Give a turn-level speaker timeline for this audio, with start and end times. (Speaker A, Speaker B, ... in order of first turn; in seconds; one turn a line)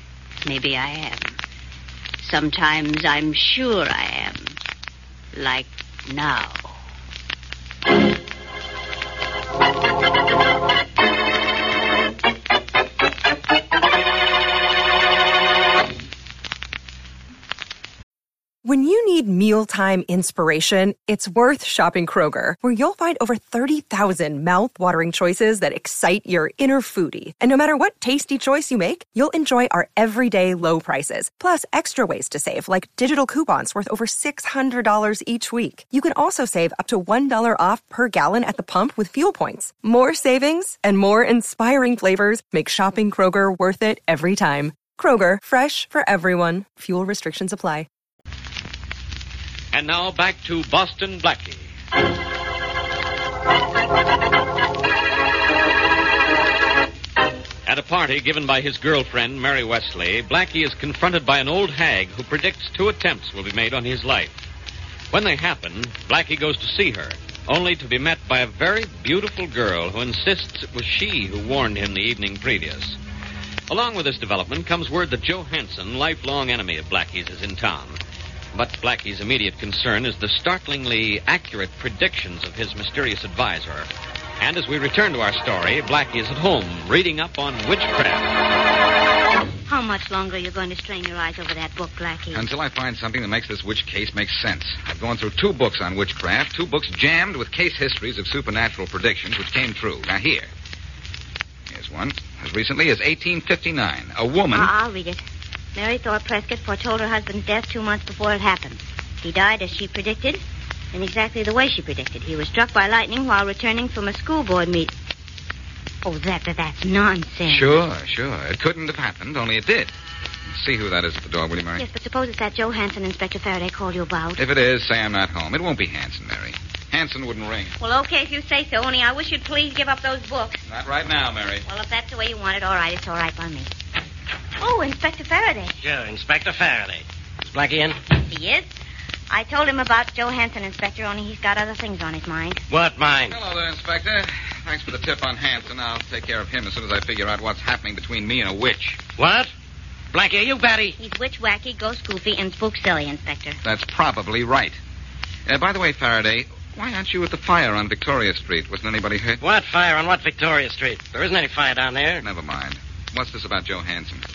Speaker A: 0.4-1.4
Speaker A: 2.2-4.6
Speaker A: 5.3-6.8
Speaker B: 18.6-47.9
Speaker C: 49.7-51.7
Speaker C: 57.6-64.4
Speaker C: 65.1-73.0
Speaker C: 73.7-78.0
Speaker C: 78.5-83.9
Speaker C: 84.4-88.3
Speaker D: 89.7-92.4
Speaker E: 92.3-100.5
Speaker E: 101.7-104.7
Speaker D: 104.5-105.2
Speaker D: 105.7-110.4
Speaker D: 110.9-114.9
Speaker D: 116.0-117.7
Speaker E: 117.5-119.9
Speaker E: 120.5-121.8
Speaker D: 121.8-124.4
Speaker E: 124.4-127.7
Speaker D: 127.8-130.6
Speaker E: 130.7-131.6
Speaker D: 131.7-133.7
Speaker D: 134.6-135.7
Speaker F: 135.8-138.0
Speaker D: 138.2-138.7
Speaker D: 139.3-142.6
Speaker F: 142.7-143.4
Speaker E: 143.3-149.0
Speaker F: 149.2-149.5
Speaker F: 150.1-150.9
Speaker D: 151.0-153.6
Speaker E: 153.6-154.8
Speaker E: 155.4-159.4
Speaker F: 159.4-162.2
Speaker E: 162.2-164.2